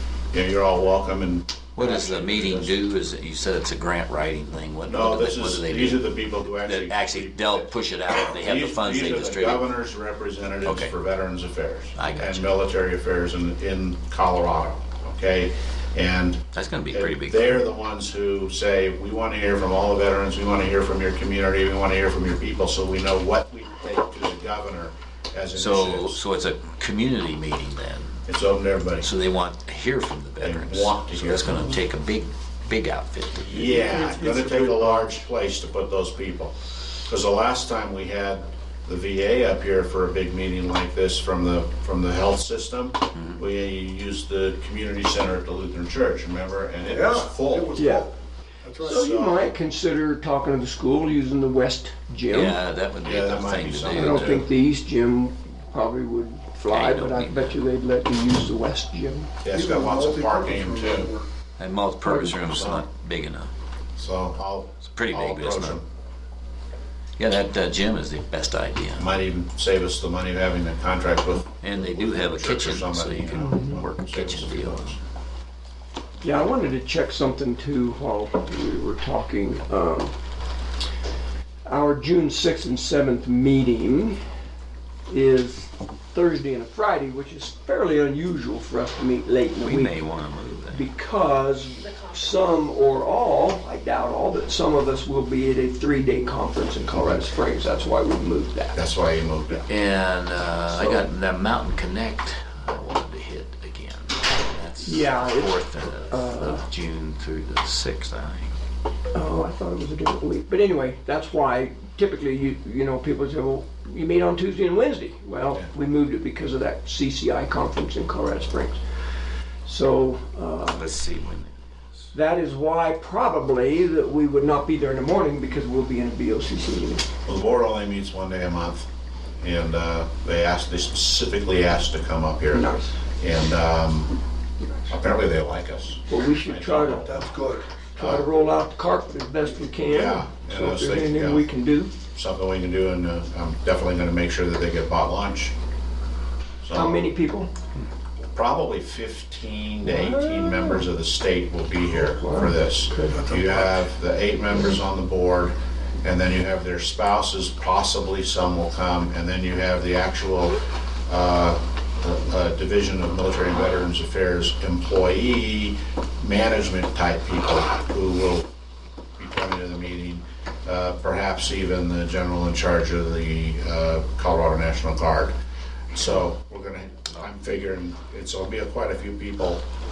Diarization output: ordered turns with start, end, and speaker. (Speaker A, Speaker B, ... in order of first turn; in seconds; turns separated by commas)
Speaker A: 0.3-2.8, Speaker B: 1.8-6.1, Speaker A: 4.9-26.2, Speaker B: 6.6-9.7, Speaker B: 10.6-10.9, Speaker B: 12.0-12.5, Speaker B: 16.5-17.6, Speaker B: 25.6-28.2, Speaker A: 28.3-29.1, Speaker B: 29.0-33.7, Speaker A: 30.4-31.7, Speaker A: 33.4-36.5, Speaker C: 33.7-35.1, Speaker A: 37.1-48.0, Speaker B: 43.2-43.4, Speaker C: 46.9-48.1, Speaker D: 47.8-48.1, Speaker C: 48.6-49.0, Speaker A: 48.8-49.5, Speaker D: 48.8-52.6, Speaker B: 52.3-54.5, Speaker A: 53.0-54.5, Speaker D: 53.9-59.3, Speaker B: 56.7-57.6, Speaker A: 59.4-61.1, Speaker C: 59.5-61.3, Speaker B: 61.6-63.5, Speaker D: 62.0-62.3, Speaker A: 62.2-62.9, Speaker A: 64.0-65.9, Speaker B: 64.9-65.8, Speaker B: 67.2-69.1, Speaker A: 69.0-75.0, Speaker B: 71.6-75.0, Speaker D: 73.3-73.8, Speaker D: 76.2-80.2, Speaker D: 81.7-84.2, Speaker D: 85.1-90.0, Speaker B: 89.6-90.9, Speaker D: 90.7-98.8, Speaker A: 98.8-99.7, Speaker B: 99.7-108.5, Speaker D: 104.8-106.7, Speaker D: 109.1-118.8, Speaker D: 119.7-120.8, Speaker B: 120.7-122.1, Speaker D: 122.1-127.1, Speaker A: 127.3-128.9, Speaker A: 129.4-134.2, Speaker D: 132.5-132.9, Speaker A: 134.9-138.3, Speaker D: 136.1-137.1, Speaker C: 137.0-137.7, Speaker D: 138.0-141.9, Speaker A: 139.9-141.5, Speaker A: 142.1-145.5, Speaker A: 146.6-147.1, Speaker D: 146.7-147.5, Speaker A: 148.3-168.5, Speaker D: 149.8-150.9, Speaker D: 151.9-153.2, Speaker C: 153.3-153.8, Speaker A: 169.2-175.4, Speaker A: 175.9-179.7